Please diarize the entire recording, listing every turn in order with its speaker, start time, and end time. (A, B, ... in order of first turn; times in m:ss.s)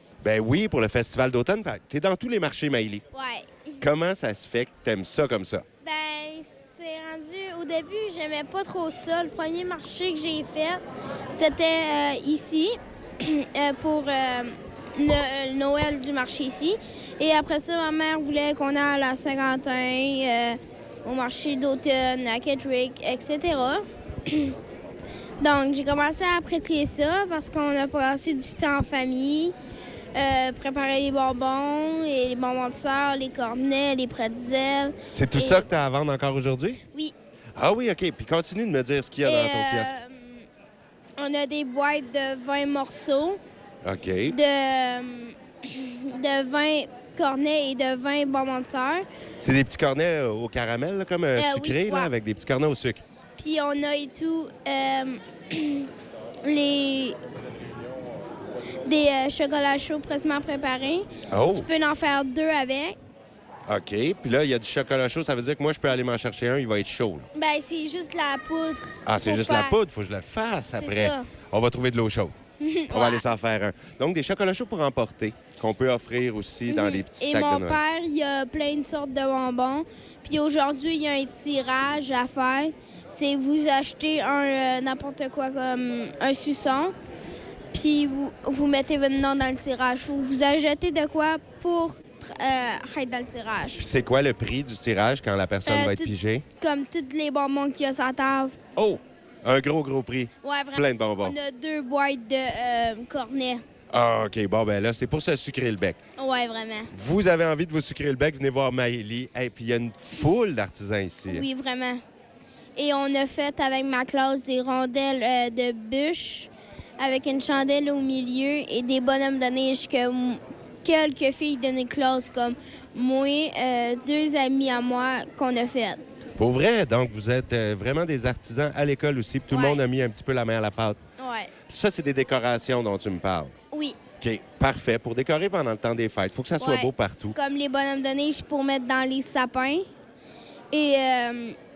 0:00.2-0:03.0 A
0:03.1-0:03.8 B
0:03.8-0:05.6 A
0:05.8-0:24.6 B
0:25.4-0:29.6 B
0:30.1-0:35.7 B
0:35.1-0:36.8 A
0:37.6-0:39.9 A
0:39.2-0:40.5 B
0:41.2-0:43.4 B
0:43.8-0:44.4 A
0:44.3-0:49.1 B
0:49.4-0:53.0 A
0:51.4-0:52.1 B
0:53.4-0:55.9 B
0:56.4-0:57.2 B
0:58.8-1:03.0 B
1:01.3-1:01.7 A
1:03.7-1:07.3 A
1:07.3-1:09.8 B
1:09.1-1:12.4 A
1:10.7-1:11.3 B
1:12.6-1:13.2 B
1:12.9-1:17.8 A
1:16.7-1:27.0 B
1:27.7-1:33.8 B
1:33.8-1:36.4 A
1:35.7-1:38.6 B
1:38.8-1:41.4 A
1:40.4-1:43.6 B
1:43.9-1:46.0 A
1:46.2-1:46.9 B
1:46.9-1:51.4 A
1:51.3-1:52.0 B
1:52.8-2:06.0 B
2:06.4-2:11.0 A
2:09.5-2:09.8 B
2:11.2-2:11.5 B
2:11.7-2:13.5 A
2:13.7-2:14.0 B
2:14.2-2:17.4 A
2:16.6-2:19.9 B
2:20.7-2:21.6 B